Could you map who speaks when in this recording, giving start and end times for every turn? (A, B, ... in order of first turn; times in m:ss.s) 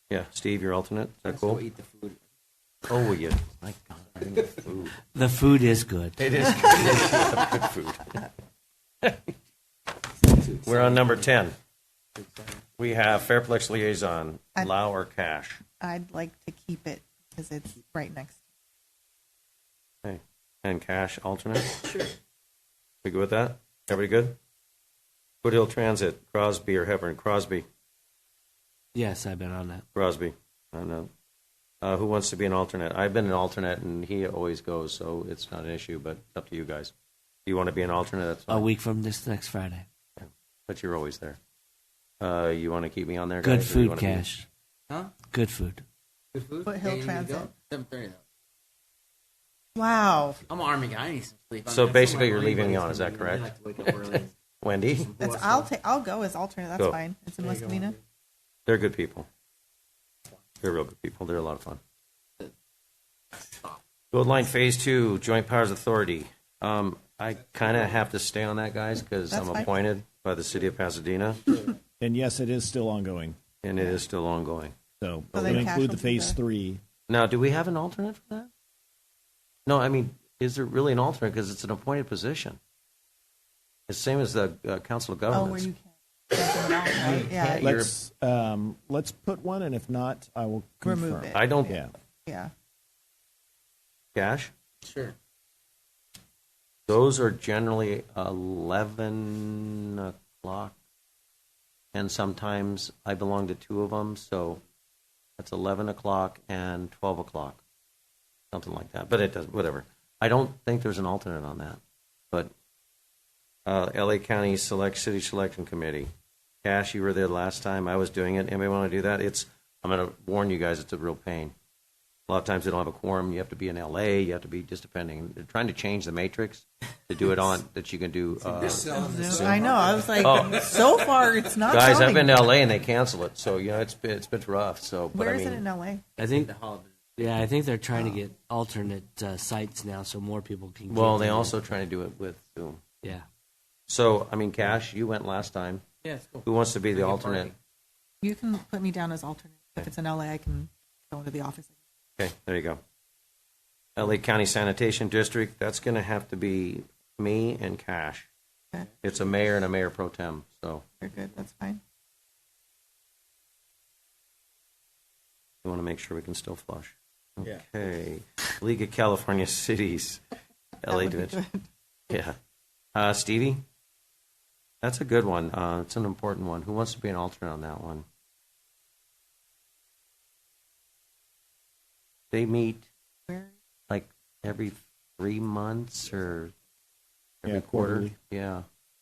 0:00.1-0:01.6 A
0:01.3-0:02.2 B
0:02.9-0:05.0 A
0:05.1-0:06.2 C
0:06.2-0:08.3 A
0:09.0-0:09.3 A
0:10.3-0:11.1 B
0:10.5-0:11.6 A
0:12.2-0:12.6 B
0:12.8-0:15.6 A
0:15.8-0:18.4 D
0:20.0-0:22.0 A
0:23.0-0:24.4 A
0:25.4-0:27.6 A
0:28.9-0:29.8 C
0:29.9-0:31.1 A
0:31.8-0:36.9 A
0:37.4-0:38.6 A
0:38.5-0:39.8 C
0:40.2-0:41.4 A
0:42.2-0:44.2 A
0:43.4-0:44.5 C
0:44.9-0:45.1 B
0:45.3-0:45.8 C
0:46.3-0:48.2 B
0:46.6-0:47.5 D
0:49.7-0:50.4 D
0:50.5-0:54.3 B
0:51.6-0:55.1 A
0:54.9-0:55.7 B
0:55.2-0:58.0 D
0:57.4-0:57.9 B
0:58.6-0:59.3 A
1:00.6-1:01.8 A
1:04.1-1:11.6 A
1:09.3-1:09.7 D
1:12.0-1:13.4 E
1:13.6-1:14.8 A
1:15.0-1:16.8 E
1:15.3-1:16.4 D
1:17.1-1:18.5 A
1:19.6-1:22.6 A
1:23.9-1:25.7 A
1:25.3-1:27.8 D
1:27.1-1:27.9 A
1:27.6-1:31.9 E
1:30.8-1:32.5 D
1:31.3-1:31.7 A
1:34.1-1:34.5 A
1:34.8-1:35.1 B
1:36.9-1:40.8 A
1:41.9-1:44.6 A
1:45.4-1:47.6 A
1:48.5-1:51.8 A
1:53.6-1:56.1 A
1:56.6-2:01.5 A
2:02.3-2:10.8 A
2:08.5-2:10.0 B
2:08.8-2:12.5 D
2:11.7-2:15.6 A
2:15.1-2:16.0 D
2:16.2-2:16.5 C
2:16.2-2:17.3 B
2:17.2-2:21.5 C
2:20.9-2:22.8 A
2:23.9-2:25.8 A
2:26.0-2:27.5 B
2:26.4-2:27.5 A
2:28.2-2:31.7 D
2:32.2-2:32.8 A
2:34.0-2:38.3 A
2:39.0-2:40.8 A
2:41.0-2:41.8 D
2:45.6-2:50.2 A
2:50.8-2:51.4 A
2:50.9-2:51.7 D
2:52.1-2:52.4 A
2:52.9-2:53.6 A
2:54.8-2:58.0 A
3:02.3-3:02.9 A
3:03.3-3:03.5 D
3:03.9-3:06.5 A
3:07.4-3:08.6 A
3:07.4-3:08.1 E